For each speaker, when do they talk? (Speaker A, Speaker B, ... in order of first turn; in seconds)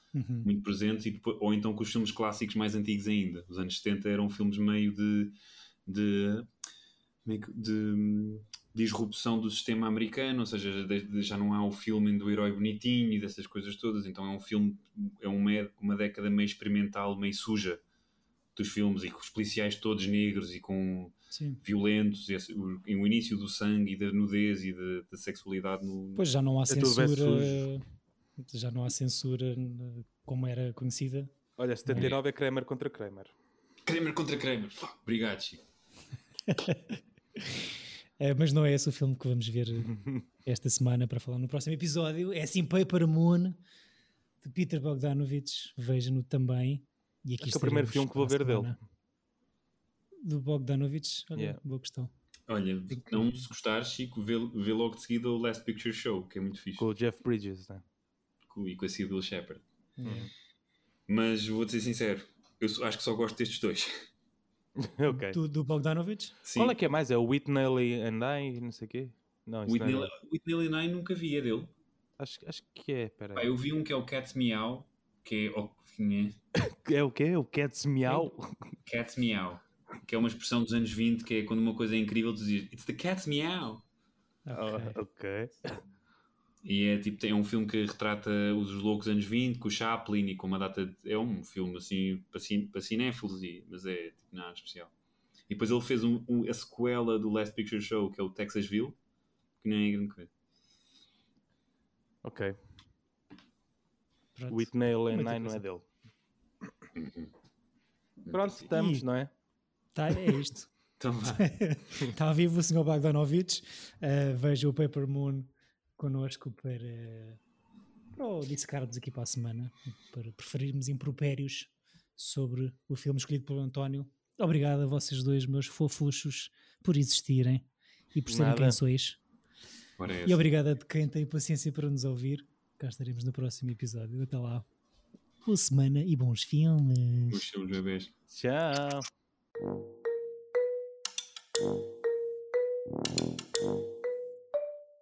Speaker A: 0.1-0.5, 21.3-21.6, 26.2-27.9, 28.5-31.3, 31.9-32.1, 36.5-43.6, 44.4-48.8, 50.2-52.1, 52.9-53.4, 60.0-60.3, 65.1-66.4, 84.5-85.0, 104.4-105.6, 108.7-109.0, 110.0-110.7, 111.4-117.4, 118.1-129.2, 130.2-134.7, 135.4-137.4
Speaker B: 0.4-5.3, 5.9-6.5, 7.2-17.8, 18.6-26.2, 33.9-35.6, 52.5-56.9, 58.5-59.6, 61.1-64.1, 66.5-66.8, 69.7-71.7, 73.4-76.4, 78.8-83.8, 86.7-94.9, 95.5-99.0, 99.6-100.3, 107.0-107.3, 108.2-108.5, 111.0-111.5, 130.0-130.4, 137.3-138.1
Speaker C: 26.7-27.7, 31.6-33.3, 39.9-40.2, 47.4-48.8, 51.4-51.6, 56.8-57.8, 60.0-60.3, 64.8-65.4, 66.6-70.1, 72.2-73.5, 76.5-78.8, 84.5-85.8, 102.2-102.6, 104.5-105.9, 108.3-109.3, 128.3-128.8, 138.3-139.1